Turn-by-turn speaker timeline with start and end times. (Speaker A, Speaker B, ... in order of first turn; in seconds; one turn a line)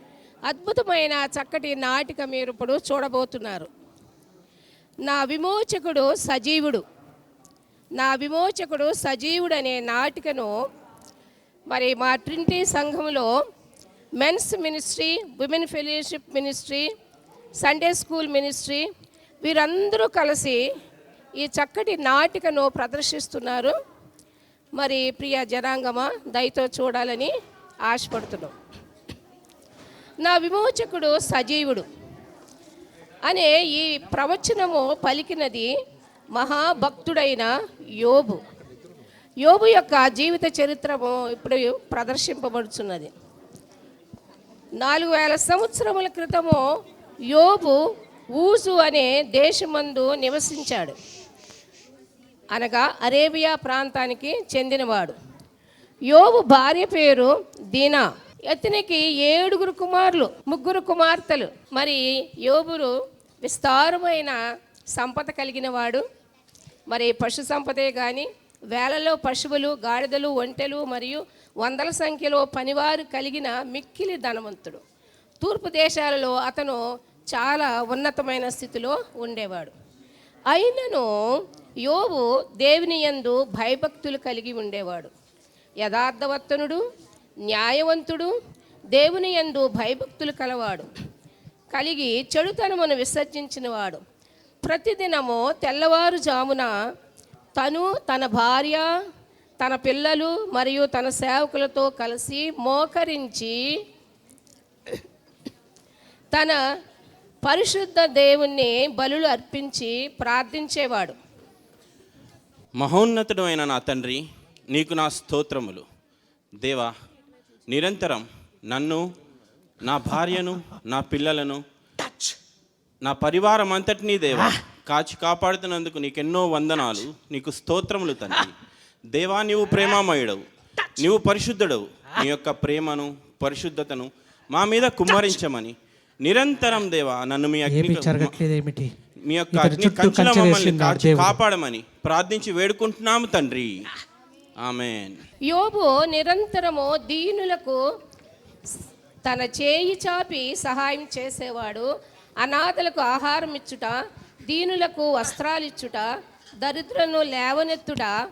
Speaker A: 0.5-3.7
Speaker A: 5.1-6.8
Speaker A: 8.0-10.5
Speaker A: 11.7-13.3
Speaker A: 14.2-16.9
Speaker A: 17.6-18.8
Speaker A: 19.4-20.6
Speaker A: 21.4-23.7
Speaker A: 24.8-27.3
Speaker A: 27.9-28.5
Speaker A: 30.2-31.9
Speaker A: 33.2-35.7
Speaker A: 36.3-38.4
Speaker A: 39.4-43.1
Speaker A: 44.8-46.6
Speaker A: 47.3-47.8
Speaker A: 48.4-51.0
Speaker A: 52.5-55.1
Speaker A: 56.1-62.9
Speaker A: 63.4-64.4
Speaker A: 65.0-66.0
Speaker A: 66.9-74.8
Speaker A: 75.4-76.8
Speaker A: 77.3-79.7
Speaker A: 80.5-81.1
Speaker A: 81.9-85.1
Speaker A: 85.8-86.8
Speaker A: 87.5-88.3
Speaker A: 88.9-90.9
Speaker A: 91.7-94.0
Speaker A: 94.6-96.7
Speaker A: 97.6-98.9
Speaker A: 99.6-103.5
Speaker A: 107.4-111.2
Speaker B: 112.8-115.8
Speaker B: 116.6-116.9
Speaker B: 117.7-119.0
Speaker B: 119.8-121.6
Speaker B: 123.0-128.5
Speaker B: 129.1-130.4
Speaker B: 131.0-138.4
Speaker C: 137.7-138.9
Speaker B: 139.3-143.8
Speaker C: 139.5-141.4
Speaker B: 144.6-145.2
Speaker A: 145.5-147.8
Speaker A: 149.2-151.9
Speaker A: 152.4-153.9
Speaker A: 154.5-156.1
Speaker A: 156.6-158.1